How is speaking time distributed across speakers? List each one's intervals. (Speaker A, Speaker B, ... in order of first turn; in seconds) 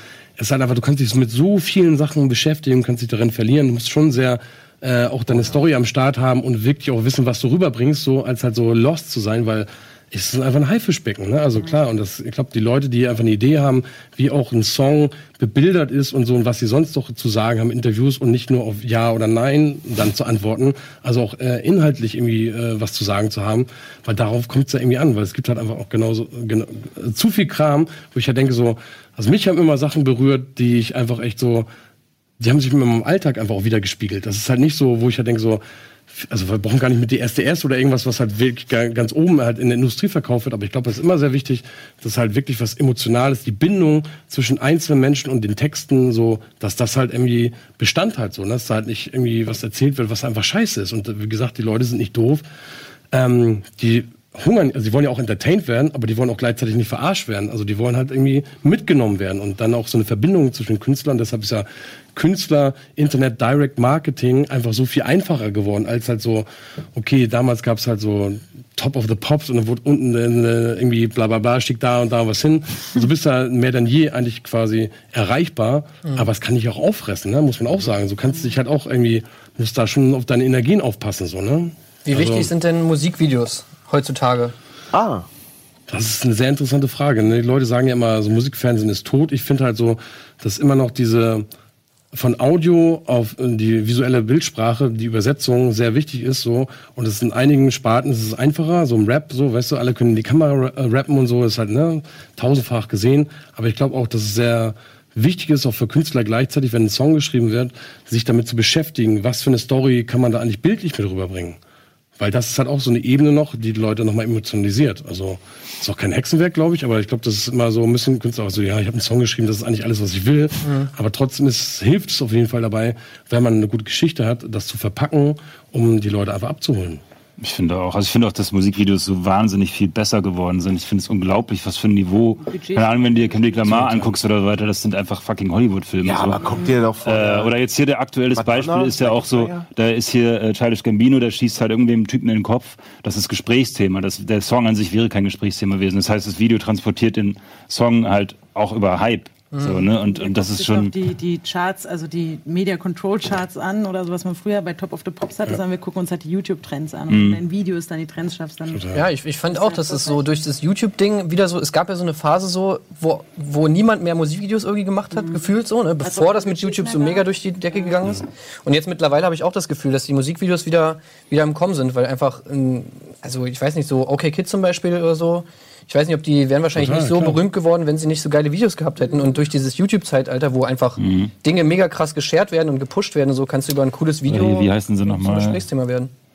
Speaker A: 0.4-31.7, 32.4-52.4, 53.1-82.5, 85.9-91.5, 92.1-111.6, 112.2-127.0, 133.7-134.1, 158.7-159.0, 176.8-177.4
Speaker B: 82.0-84.5, 120.6-120.9, 149.5-149.8, 158.9-186.1
Speaker C: 84.9-85.2, 136.0-137.5, 138.3-139.6
Speaker D: 127.4-136.4, 137.0-150.9, 157.1-157.4, 181.0-181.3, 184.3-185.6
Speaker E: 132.4-133.8, 136.5-136.7, 150.0-158.9, 159.5-160.3, 165.2-165.4, 166.0-167.9